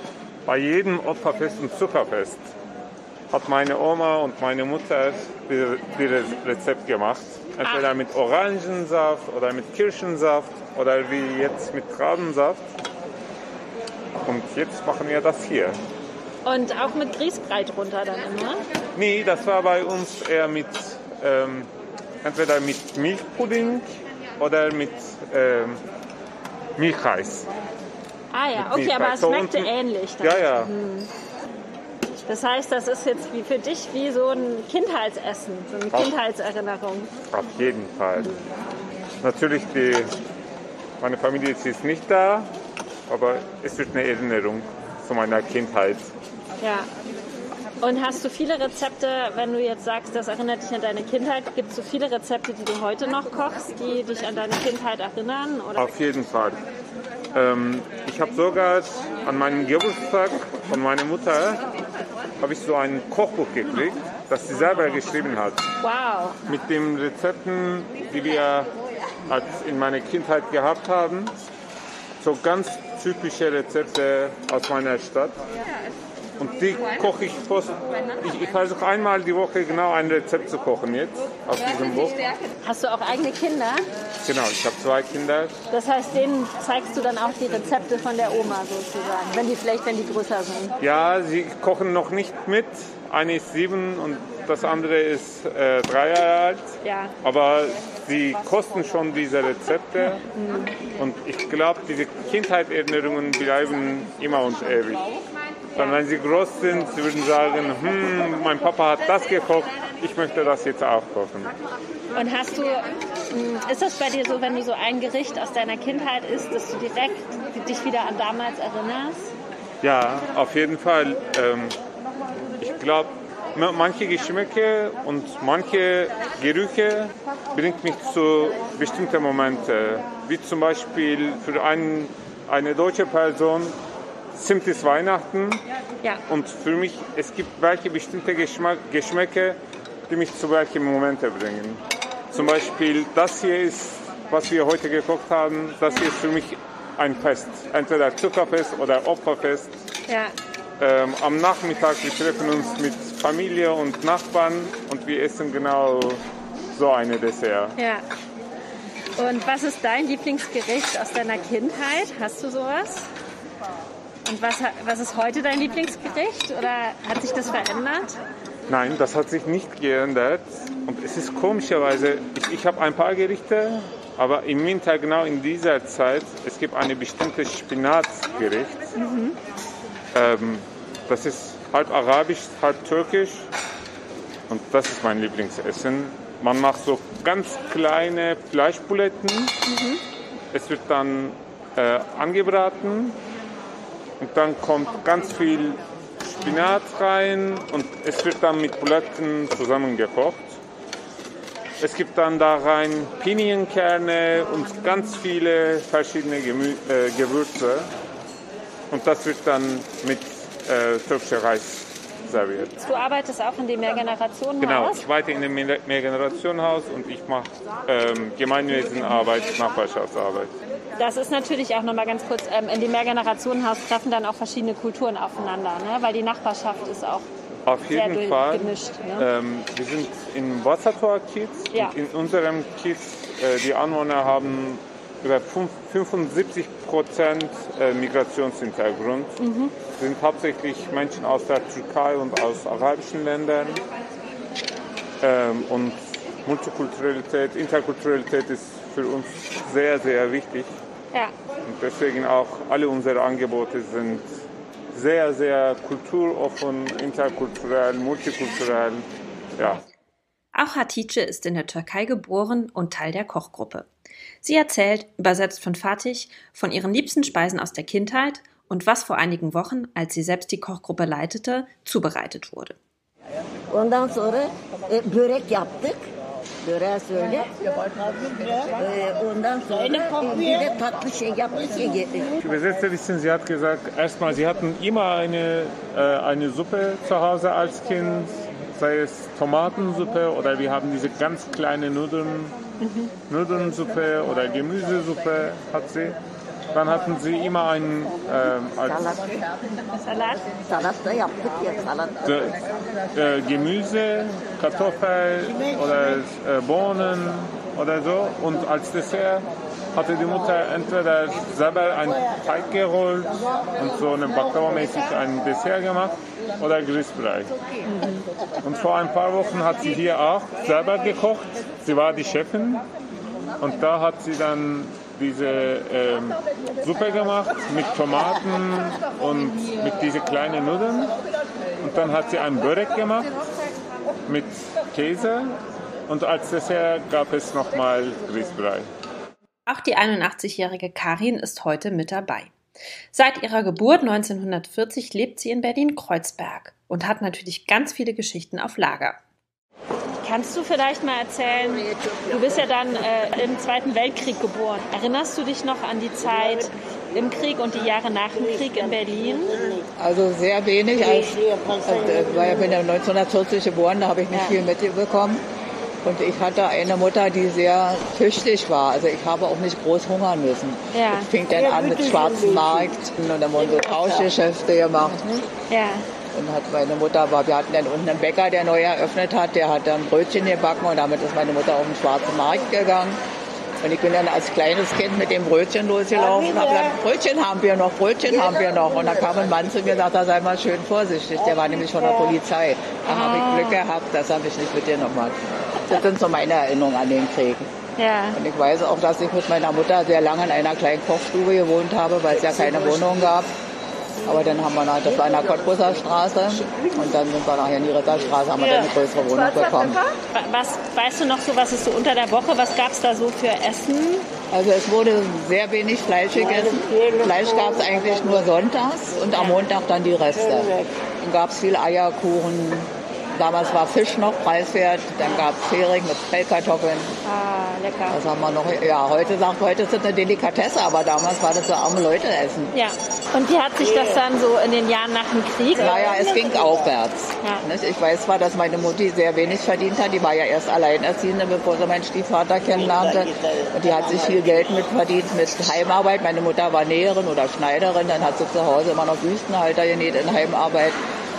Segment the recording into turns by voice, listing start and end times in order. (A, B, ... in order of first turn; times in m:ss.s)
0:00.4-0:02.4 A
0:03.3-0:12.7 A
0:07.6-0:07.9 B
0:14.2-0:15.8 A
0:16.4-0:18.6 B
0:18.9-0:21.7 A
0:22.2-0:23.9 A
0:24.4-0:25.8 A
0:26.8-0:27.5 A
0:28.3-0:31.1 B
0:28.5-0:30.7 A
0:32.2-0:37.1 B
0:37.3-0:38.4 A
0:39.2-0:40.1 A
0:41.0-0:42.5 A
0:43.1-0:46.1 A
0:46.6-0:46.9 B
0:47.8-0:55.9 B
0:55.8-0:56.6 A
0:57.3-1:01.6 A
1:02.4-1:05.6 A
1:05.8-1:06.4 B
1:06.4-1:08.7 A
1:09.3-1:11.3 A
1:12.2-1:15.4 A
1:16.4-1:22.2 A
1:22.6-1:23.9 B
1:24.2-1:25.5 A
1:25.7-1:30.8 B
1:30.8-1:40.2 A
1:36.8-1:37.1 B
1:40.3-1:40.8 B
1:41.0-1:45.2 A
1:45.7-1:51.5 A
1:52.1-1:59.3 B
1:59.8-2:01.8 A
2:02.6-2:13.8 A
2:14.3-2:15.6 A
2:16.3-2:29.7 A
2:30.1-2:30.3 B
2:30.8-2:36.2 A
2:36.7-2:37.8 A
2:37.8-2:38.0 B
2:39.2-2:43.1 B
2:44.2-2:48.2 B
2:48.7-2:58.9 A
2:59.0-2:59.4 B
3:00.1-3:03.5 A
3:04.5-3:09.6 A
3:09.6-3:10.0 B
3:10.5-3:13.2 A
3:14.2-3:20.6 A
3:21.8-3:27.9 A
3:28.9-3:32.7 A
3:32.8-3:35.0 B
3:34.6-3:40.5 A
3:41.0-3:47.3 B
3:47.6-4:03.8 A
3:47.9-3:49.3 B
3:59.4-3:59.7 B
4:05.2-4:10.7 A
4:11.6-4:14.3 A
4:14.9-4:19.0 A
4:19.6-4:19.8 A
4:20.5-4:23.9 C
4:24.4-4:32.8 C
4:33.7-4:36.0 D
4:36.6-4:37.7 D
4:38.4-4:42.4 D
4:42.4-4:52.5 A
4:52.8-4:53.1 B
4:53.3-4:56.2 A
4:56.7-4:59.2 A
4:58.9-4:59.2 D
4:59.8-5:00.4 B
5:00.5-5:02.3 D
5:02.2-5:02.6 A
5:03.1-5:17.5 A
5:17.8-5:18.2 B
5:18.6-5:22.8 A
5:23.6-5:31.1 A
5:31.8-5:33.3 A
5:34.3-5:38.9 A
5:39.7-5:42.5 C
5:43.1-5:49.2 C
5:50.2-5:59.8 B
6:00.0-6:05.4 E
6:04.3-6:04.6 B
6:06.0-6:15.5 E
6:10.9-6:11.3 B
6:15.7-6:16.0 B
6:16.3-6:23.2 E
6:23.8-6:37.7 E
6:28.3-6:29.7 D
6:31.9-6:32.4 B
6:33.0-6:33.8 B
6:38.0-6:38.4 B
6:38.3-6:43.5 E
6:44.2-6:50.0 E
6:44.3-6:44.6 B
6:45.2-6:45.7 D
6:48.6-6:48.9 B
6:50.3-6:54.3 B
6:54.5-7:07.1 E
6:59.3-6:59.6 B
7:05.2-7:05.5 B
7:07.2-7:08.2 B
7:08.1-7:12.7 E
7:12.7-7:16.1 B
7:15.8-7:31.0 E